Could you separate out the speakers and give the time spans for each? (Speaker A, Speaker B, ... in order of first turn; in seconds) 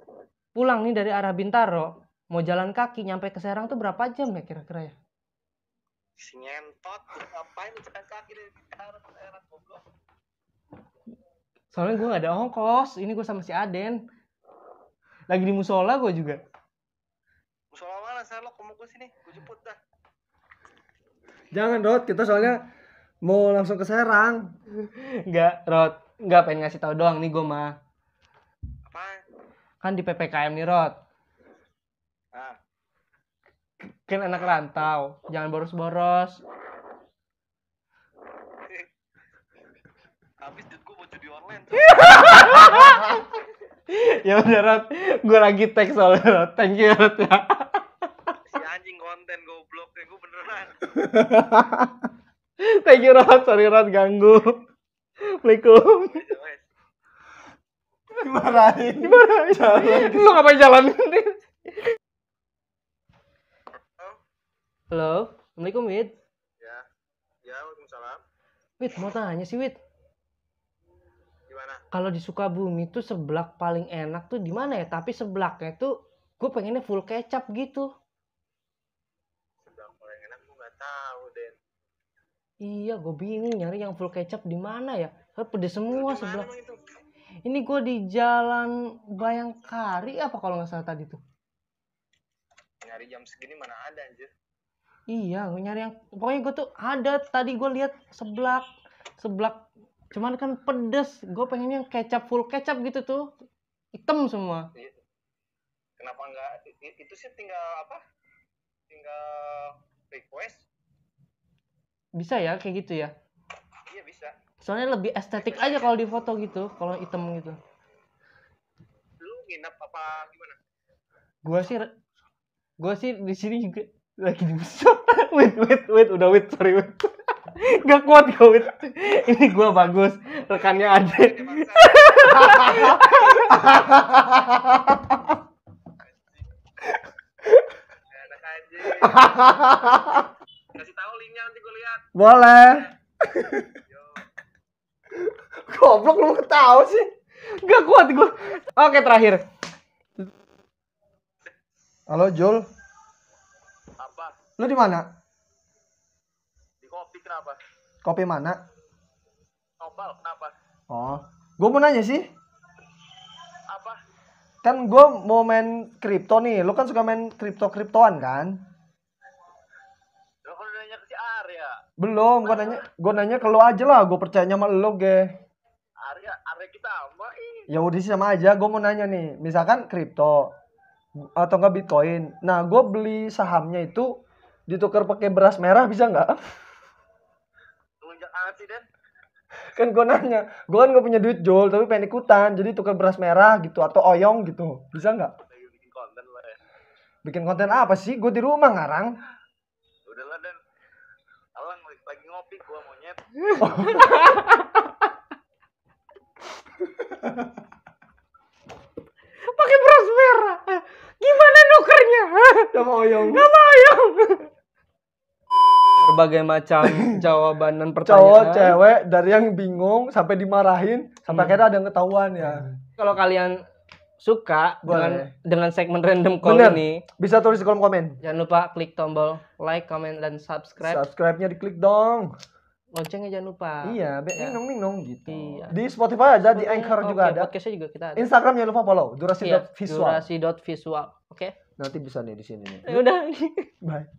Speaker A: 0.5-4.9, 11.7-14.0, 15.3-16.4, 24.8-27.8, 29.8-30.9, 33.8-36.4, 41.7-43.3, 43.9-48.3, 52.6-54.6, 55.2-56.2, 59.0-61.4, 64.9-66.1, 68.8-69.8, 71.9-77.9, 82.6-86.5, 87.4-91.2, 95.1-98.7, 99.2-103.3, 103.9-104.7, 112.1-113.1, 114.6-117.6, 121.4-121.9, 122.8-133.7, 147.5-149.4, 203.4-204.8, 209.5-214.5, 216.0-218.8, 221.3-221.6, 223.0-223.6, 224.2-227.0, 228.2-231.0, 232.9-234.6, 235.3-235.7, 236.4-238.2, 239.4-241.5, 242.8-243.7
Speaker B: 6.2-9.8, 17.7-19.8, 28.9-29.2, 40.4-42.8, 48.5-50.8, 56.1-56.6, 66.6-66.8, 67.4-68.2, 71.5-71.8, 79.6-81.6, 85.9-86.8, 92.8-94.3, 106.0-108.0, 108.9-110.6, 113.9-114.3, 115.5-115.8, 119.2-120.6, 130.7-132.2, 138.1-139.3, 140.7-142.1, 154.0-154.4, 156.8-157.6, 159.8-160.5, 163.7-164.0, 170.4-171.8, 172.4-172.8, 176.0-177.7, 188.0-188.9, 195.4-196.6, 200.1-200.6, 201.5-203.2
Speaker C: 21.5-22.7, 23.2-24.5, 50.9-52.0, 58.1-60.4, 132.4-132.9, 133.5-135.3, 139.0-140.2, 142.1-143.7, 145.2-147.1, 152.1-152.7, 154.6-155.1, 158.0-158.6, 160.9-162.3, 164.6-168.6, 172.0-175.3, 177.7-180.5, 181.2-184.1, 184.7-186.4, 189.7-195.3, 197.2-199.1, 203.6-204.4, 206.9-207.5, 212.7-213.5, 216.8-217.2, 218.0-222.7, 224.8-225.3, 226.4-228.2, 230.8-232.3, 233.8-237.5, 238.2-240.2, 241.8-243.0, 243.8-244.1